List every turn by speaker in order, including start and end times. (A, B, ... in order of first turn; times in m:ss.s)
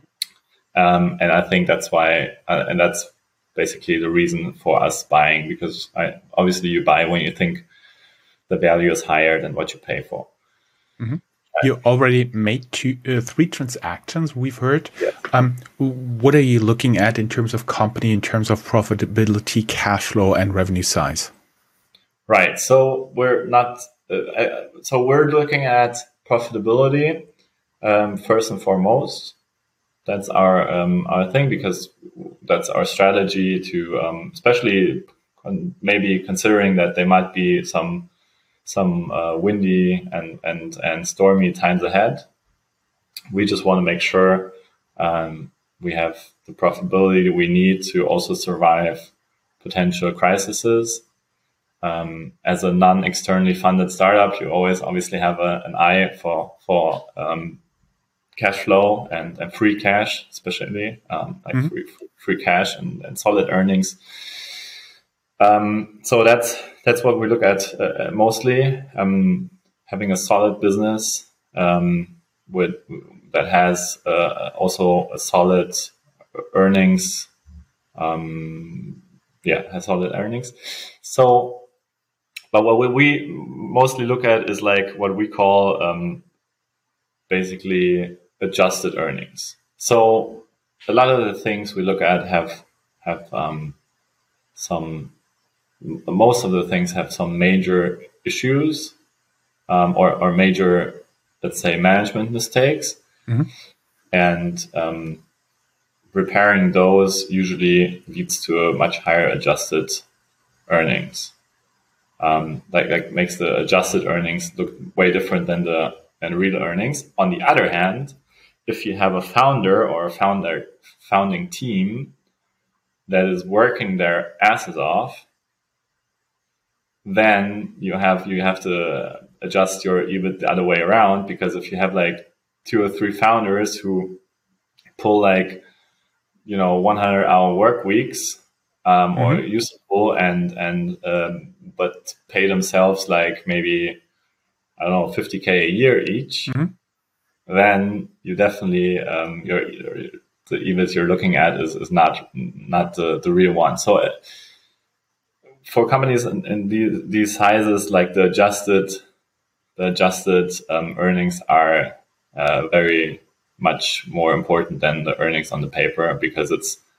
0:00.8-0:07.6 A
0:08.5-0:10.3 A
0:11.0-0:21.3 B
0:22.3-0:27.3 A
0:27.8-0:29.4 A
0:30.1-0:38.1 A
0:38.6-0:42.3 A
0:43.3-0:51.0 A
0:51.8-0:57.6 A
0:58.4-1:04.4 A
1:05.4-1:17.3 A
1:18.0-1:21.7 A
1:22.5-1:26.2 A
1:27.3-1:33.8 A
1:34.6-1:35.1 A
1:35.8-1:39.0 A
1:39.7-1:43.0 A
1:44.1-1:45.2 A
1:46.1-1:50.0 A
1:50.7-1:51.3 A
1:52.2-2:02.1 A
2:03.1-2:05.2 A
2:07.0-2:14.2 A
2:15.0-2:15.6 A
2:16.4-2:24.0 A
2:19.2-2:19.4 B
2:24.8-2:26.6 A
2:26.5-2:26.7 B
2:27.5-2:34.2 A
2:35.6-2:39.0 A
2:39.8-2:46.8 A